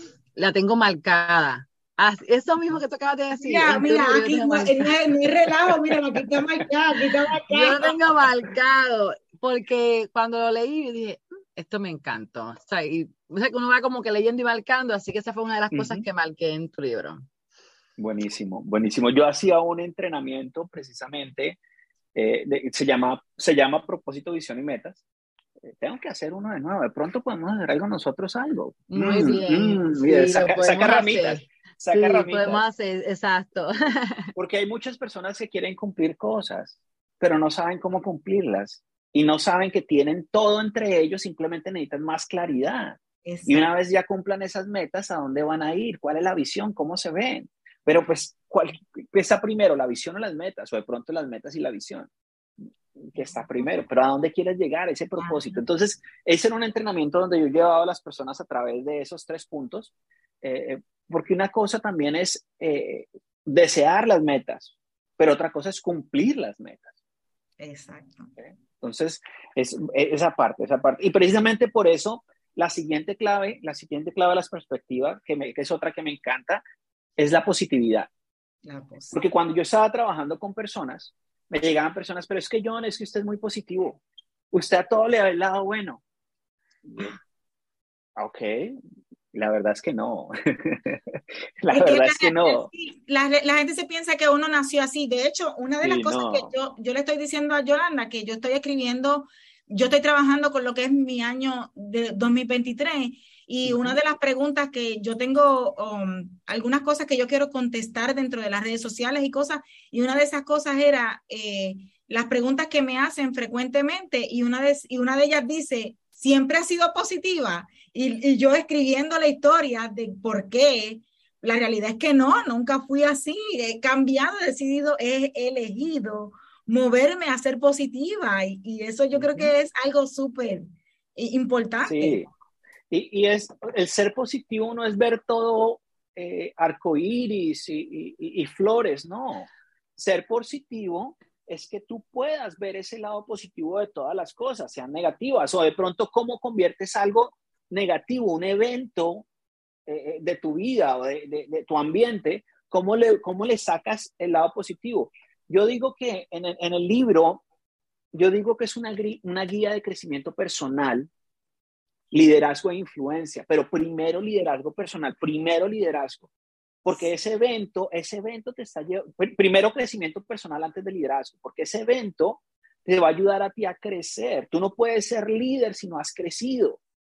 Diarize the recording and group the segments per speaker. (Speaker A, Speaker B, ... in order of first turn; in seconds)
Speaker A: 0.3-5.1, 7.5-17.2, 28.9-34.3
Speaker B: 3.4-7.9, 43.2-43.7, 53.1-53.5, 55.2-55.6, 67.6-68.3, 78.6-79.2, 91.7-132.2
Speaker C: 15.7-16.0, 18.0-21.6, 22.1-25.0, 25.6-32.6, 34.4-52.1, 53.0-59.9, 60.4-66.9, 68.4-76.6, 77.2-78.1, 79.1-84.0, 84.5-86.0, 86.8-87.1, 88.2-88.7, 89.3-92.7, 95.8-96.5, 103.6-104.0, 129.1-129.5, 131.8-132.3, 132.9-149.2, 149.9-157.4, 158.1-161.1, 162.1-166.3, 166.8-176.8